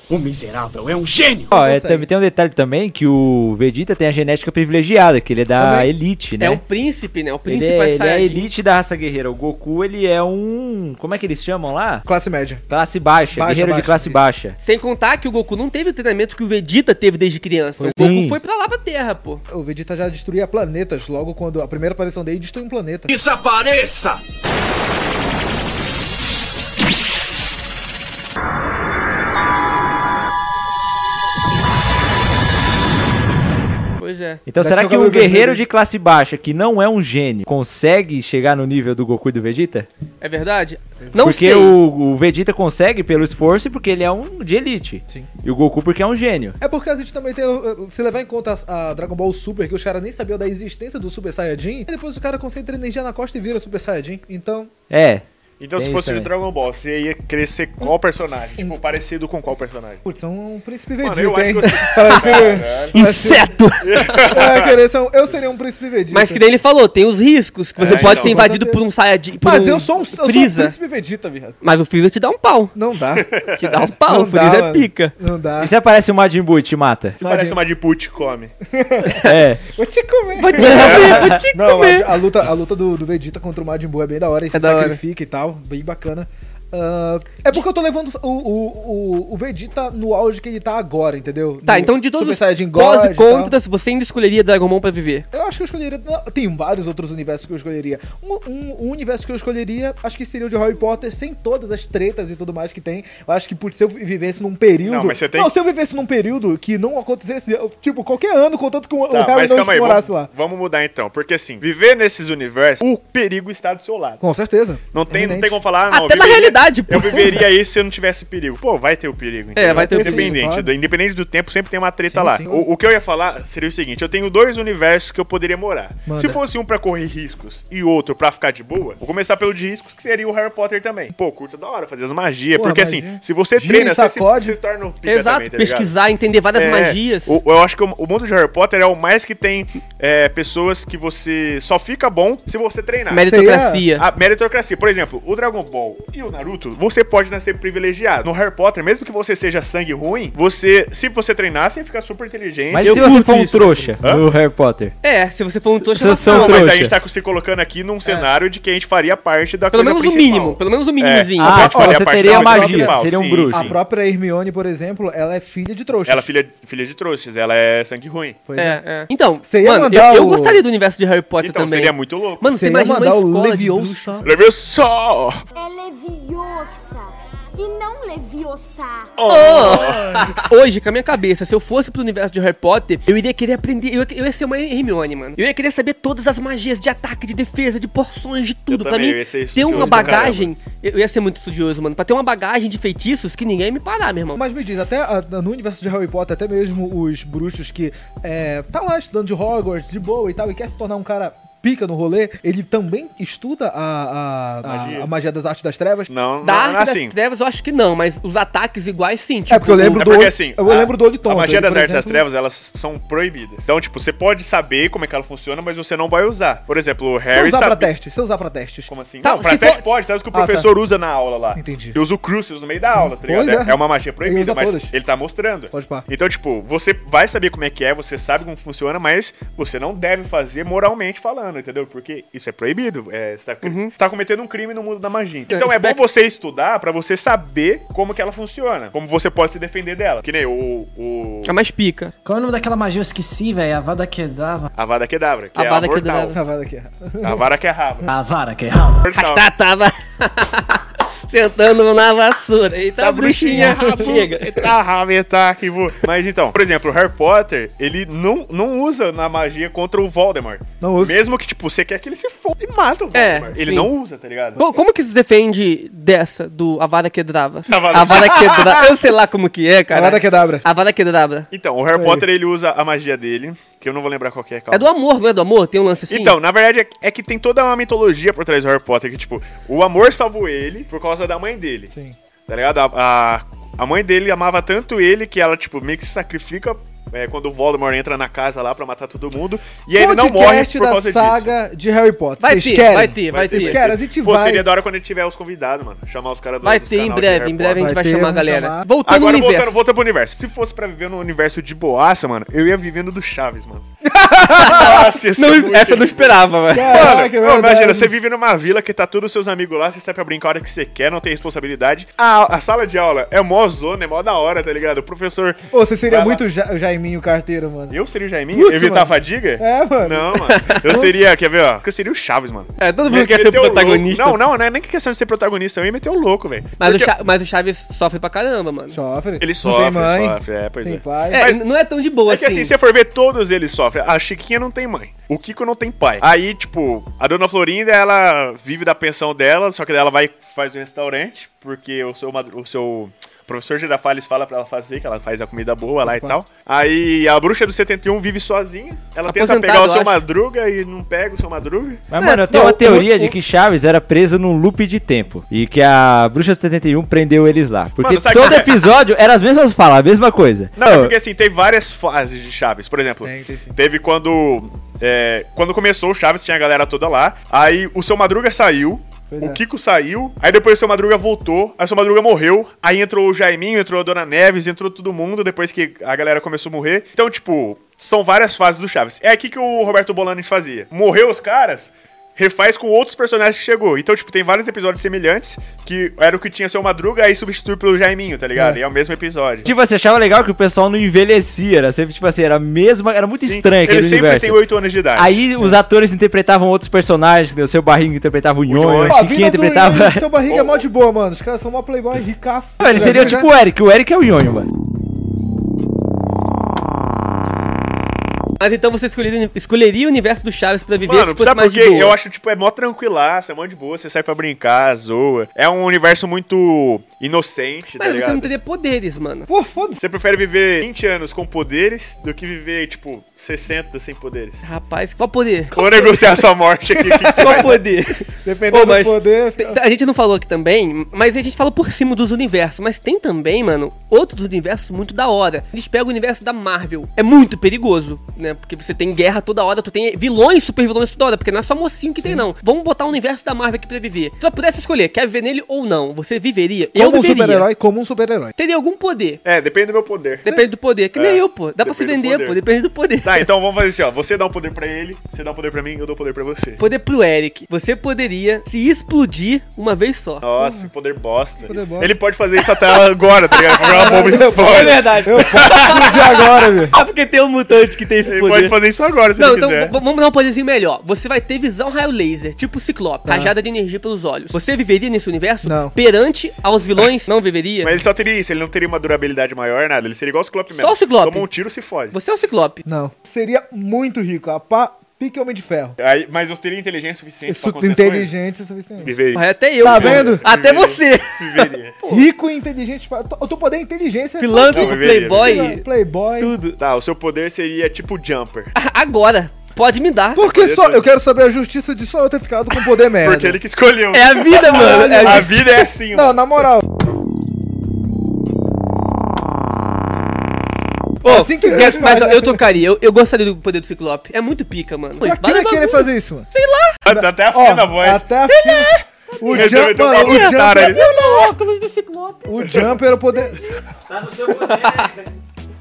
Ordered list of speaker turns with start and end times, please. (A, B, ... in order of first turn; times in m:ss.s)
0:00.1-0:01.5 A
0:01.5-0:02.1 B
0:01.5-0:06.6 C
0:05.6-0:05.9 B
0:06.4-0:08.5 D
0:07.5-0:12.0 C
0:12.0-0:12.6 B
0:12.7-0:14.6 C
0:13.3-0:14.2 B
0:14.6-0:19.4 D
0:17.8-0:18.2 B
0:17.8-0:18.4 C
0:19.5-0:23.1 B
0:23.1-0:24.2 A
0:34.0-0:34.4 D
0:34.5-0:39.9 C
0:34.6-0:35.6 B
0:40.2-0:41.8 D
0:41.0-0:41.3 B
0:41.2-0:46.6 C
0:46.6-0:54.7 B
0:54.9-0:55.2 C
0:55.6-1:00.0 E
0:55.8-0:56.3 C
1:00.0-1:03.5 B
1:01.0-1:02.9 E
1:01.6-1:04.3 D
1:03.8-1:04.8 E
1:04.1-1:06.4 B
1:06.1-1:10.8 D
1:07.8-1:08.5 E
1:07.8-1:08.8 B
1:09.4-1:11.6 B
1:11.6-1:12.7 D
1:12.8-1:13.3 B
1:13.1-1:13.8 E
1:13.5-1:15.1 D
1:13.9-1:15.7 B
1:15.6-1:17.2 C
1:17.2-1:17.6 B
1:17.2-1:18.5 E
1:18.6-1:33.5 B
1:19.0-1:19.4 D
1:19.2-1:19.6 C
1:20.4-1:22.2 D
1:20.6-1:21.3 E
1:20.9-1:21.4 C
1:24.5-1:25.0 D
1:31.6-1:35.2 D
1:35.3-1:50.3 B
1:44.8-1:45.5 E
1:49.1-1:54.2 E
1:54.2-1:55.6 B
1:54.9-2:15.9 E
1:55.9-1:57.4 D
1:59.5-2:00.4 D
1:59.6-2:00.7 B
2:02.1-2:02.7 B
2:06.0-2:06.4 B
2:12.5-2:14.6 B
2:15.0-2:17.4 D
2:16.5-2:23.3 E
2:23.1-2:24.1 D
2:23.2-2:23.9 B
2:24.0-2:33.1 E
2:32.7-2:34.9 C
2:32.8-2:33.9 D
2:34.0-2:34.3 E
2:35.0-2:36.7 D
2:35.9-2:36.9 C
2:36.2-2:43.8 E
2:39.7-2:41.7 D
2:41.4-2:43.7 C
2:41.6-2:46.3 B
2:46.0-2:48.4 E
2:48.5-2:48.8 B
2:48.6-2:54.3 D
2:49.4-2:50.6 B
2:51.4-2:52.4 E
2:52.5-2:54.3 B
2:54.2-2:55.4 E
2:55.5-2:57.0 F
2:57.5-2:59.1 F
2:59.2-3:00.5 E
2:59.3-3:14.4 D
3:08.7-3:10.5 E
3:09.7-3:10.3 B
3:14.3-3:26.1 B
3:24.6-3:25.1 E
3:26.1-3:27.1 E
3:26.4-3:30.1 D
3:29.5-3:32.2 B
3:29.8-3:37.9 E
3:37.3-3:38.9 B
3:38.9-4:01.5 E
3:39.2-3:39.9 D
3:40.3-3:40.7 B
3:41.5-3:42.0 B
3:42.9-3:44.9 B
3:45.7-3:46.0 B
3:53.6-3:53.9 D
3:55.5-3:56.0 D
4:01.4-4:02.1 D
4:02.2-4:04.7 G
4:04.8-4:06.4 E
4:05.5-4:06.4 D
4:06.3-4:07.4 B
4:07.2-4:08.1 E
4:08.0-4:09.1 G
4:09.0-4:09.5 E
4:09.1-4:14.7 D
4:13.0-4:24.6 E
4:13.5-4:14.2 B
4:20.8-4:21.2 B
4:23.1-4:23.9 D
4:24.6-4:31.5 D
4:27.7-4:28.9 E
4:29.9-4:30.6 B
4:31.5-4:34.9 E
4:31.9-4:32.3 B
4:34.7-4:36.4 D
4:36.1-4:41.9 E
4:41.9-4:42.2 B
4:42.5-4:51.5 E
4:49.9-4:54.7 B
4:52.4-4:53.8 D
4:53.3-4:57.9 E
4:56.6-4:59.8 D
4:57.8-4:58.9 B
4:59.0-5:03.8 E
5:04.2-5:05.0 B
5:04.5-5:07.0 D
5:04.6-5:16.4 E
5:06.7-5:08.1 B
5:15.7-5:18.0 B
5:17.9-5:27.1 E
5:18.5-5:21.2 B
5:20.5-5:20.8 D
5:22.8-5:24.4 D
5:26.8-5:29.0 D
5:28.9-5:31.5 B
5:29.4-5:31.6 E
5:31.3-5:32.8 D
5:32.3-5:52.0 E
5:46.0-5:46.4 B
5:49.2-5:50.2 D
5:52.1-6:01.1 C
5:52.2-5:53.4 D
5:52.5-5:53.1 B
5:58.0-5:58.9 E
6:00.8-6:29.7 E
6:03.2-6:03.8 B
6:09.3-6:09.6 B
6:29.6-6:34.6 C
6:33.4-6:35.4 E
6:35.2-6:40.2 C
6:38.7-6:39.2 E
6:39.1-6:43.5 B
6:40.4-6:40.8 E
6:42.8-6:44.7 C
6:48.6-6:52.2 D
6:51.0-6:58.5 E
6:58.0-6:59.5 D
6:59.5-7:00.0 B
7:00.0-7:04.6 E
7:04.6-7:06.4 D
7:05.7-7:07.8 E
7:07.3-7:27.7 D
7:07.4-7:07.8 B
7:08.3-7:09.8 B
7:26.9-7:28.5 B
7:28.6-7:29.4 D
7:29.4-7:30.5 E
7:30.4-7:33.5 D
7:31.1-7:32.6 E
7:33.2-7:36.8 E
7:36.8-7:40.4 D
7:40.4-7:46.2 E
7:40.6-7:40.9 B
7:41.6-7:42.2 B
7:43.5-7:48.8 D
7:43.9-7:46.9 B
7:48.2-7:50.0 E
7:49.4-7:58.0 D
7:53.2-7:53.5 B
7:55.6-7:55.9 B
7:57.8-8:02.1 E
8:00.7-8:01.5 D
8:02.1-8:02.8 D
8:02.8-8:05.9 B
8:06.0-8:08.3 E
8:07.5-8:09.2 B
8:09.0-8:12.0 E
8:09.3-8:12.3 D
8:09.8-8:10.4 B
8:12.1-8:16.5 B
8:14.4-8:15.9 D
8:14.7-8:15.8 E
8:16.4-8:16.8 D
8:16.8-8:18.7 E
8:18.8-8:20.4 D
8:20.4-8:23.6 B
8:20.4-8:21.1 E
8:23.2-8:26.6 E
8:24.1-8:25.8 D
8:24.5-8:26.9 B
8:31.2-8:37.0 D
8:31.2-8:32.6 B
8:35.2-8:36.5 B
8:37.0-8:38.3 E
8:37.0-8:41.4 B
8:38.4-8:42.8 D
8:39.5-8:41.2 E
8:42.4-8:43.6 B
8:44.1-8:45.3 C
8:44.5-8:45.1 D